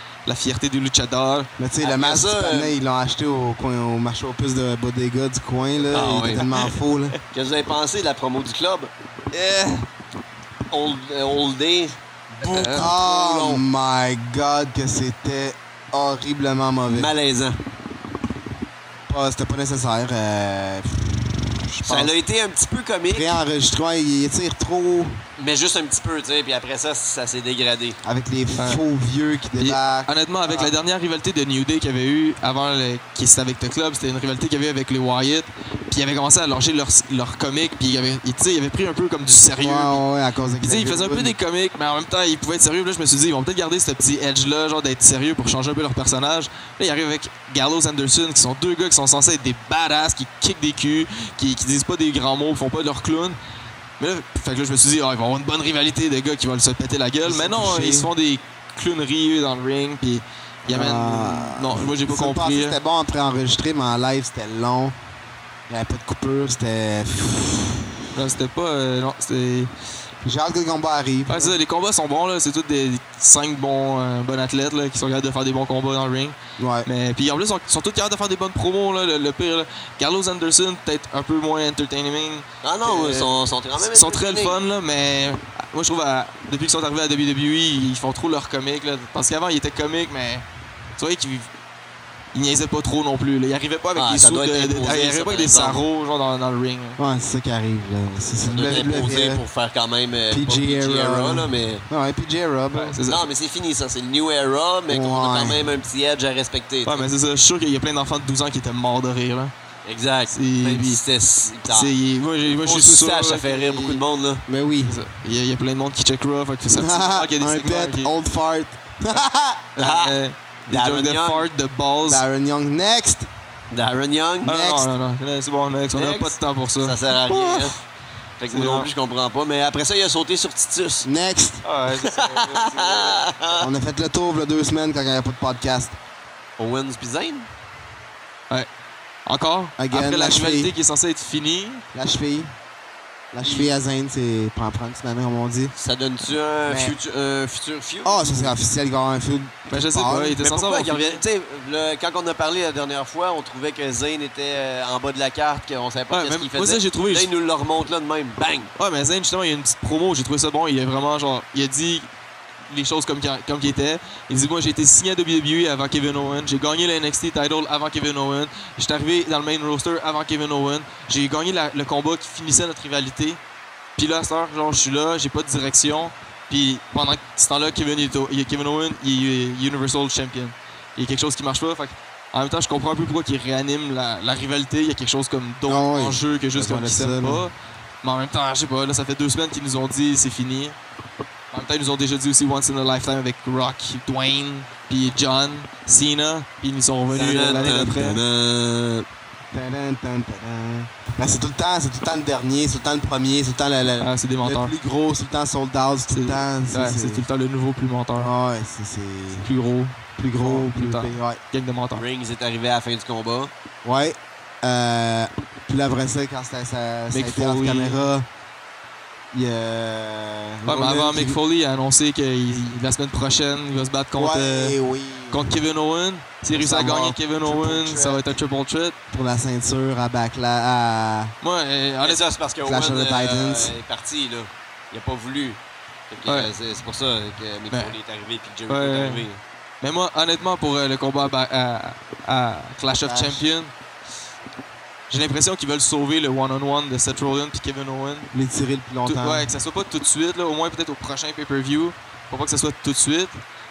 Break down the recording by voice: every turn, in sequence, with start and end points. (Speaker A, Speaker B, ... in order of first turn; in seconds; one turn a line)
Speaker A: 0.2-1.5
Speaker B: 1.6-7.2
Speaker C: 1.8-2.8
Speaker C: 5.9-6.5
Speaker A: 5.9-6.8
Speaker C: 7.3-8.9
Speaker A: 9.3-9.8
Speaker C: 10.7-13.6
Speaker B: 12.4-17.1
Speaker C: 16.9-17.6
Speaker B: 19.1-22.1
Speaker C: 21.8-23.3
Speaker B: 23.1-25.2
Speaker C: 25.4-28.0
Speaker B: 28.0-30.7
Speaker A: 28.6-28.8
Speaker A: 29.6-40.0
Speaker B: 39.6-41.4
Speaker A: 40.6-53.4
Speaker A: 54.0-62.8
Speaker B: 57.2-58.1
Speaker B: 60.7-64.9
Speaker B: 65.7-67.9
Speaker A: 68.1-69.7
Speaker B: 70.2-71.5
Speaker A: 71.3-90.5
Speaker B: 76.6-76.9
Speaker C: 82.6-84.6
Speaker A: 91.0-91.5
Speaker A: 92.3-97.0
Speaker C: 94.0-95.8
Speaker B: 97.0-99.4
Speaker C: 98.4-101.8
Speaker B: 100.3-103.0
Speaker A: 102.7-103.2
Speaker C: 103.0-107.1
Speaker B: 104.9-105.7
Speaker A: 106.8-109.5
Speaker C: 109.8-111.9
Speaker A: 110.3-111.0
Speaker A: 111.7-114.0
Speaker C: 112.5-114.4
Speaker B: 114.5-115.0
Speaker A: 114.8-118.1
Speaker B: 116.7-119.7
Speaker A: 119.8-122.2
Speaker C: 119.8-121.5
Speaker B: 122.1-123.3
Speaker C: 123.7-124.5
Speaker B: 124.5-124.9
Speaker A: 124.5-127.0
Speaker C: 125.9-127.8
Speaker B: 127.3-127.7
Speaker C: 128.4-131.1
Speaker A: 128.5-128.9
Speaker B: 131.0-131.6
Speaker A: 131.6-133.3
Speaker C: 131.9-133.7
Speaker B: 133.6-135.9
Speaker C: 136.6-137.5
Speaker A: 139.3-141.8
Speaker B: 139.8-140.7
Speaker B: 141.9-142.5
Speaker B: 143.3-145.7
Speaker C: 143.4-143.7
Speaker C: 145.7-148.6
Speaker B: 146.7-146.9
Speaker B: 148.0-150.4
Speaker A: 149.7-151.2
Speaker C: 150.4-158.7
Speaker A: 156.1-157.3
Speaker A: 158.8-162.1
Speaker A: 162.7-173.4
Speaker A: 174.0-190.8
Speaker B: 185.7-187.5
Speaker A: 191.5-198.2
Speaker C: 197.1-199.1
Speaker B: 197.4-197.8
Speaker B: 199.5-207.2
Speaker A: 204.0-204.7
Speaker A: 206.1-208.3
Speaker B: 208.2-209.5
Speaker A: 209.4-212.0
Speaker B: 210.2-211.4
Speaker C: 211.9-213.5
Speaker B: 213.8-218.2
Speaker A: 217.1-218.0
Speaker B: 219.3-221.4
Speaker A: 220.7-224.8
Speaker B: 224.2-225.5
Speaker A: 225.3-228.9
Speaker B: 226.5-228.1
Speaker C: 227.5-228.2
Speaker B: 229.1-231.3
Speaker A: 231.4-232.3
Speaker C: 232.0-239.4
Speaker B: 232.6-233.7
Speaker A: 236.2-236.5
Speaker A: 238.7-239.2
Speaker A: 239.8-243.7
Speaker B: 243.0-243.4
Speaker A: 245.1-248.3
Speaker B: 248.3-249.5
Speaker A: 249.0-253.4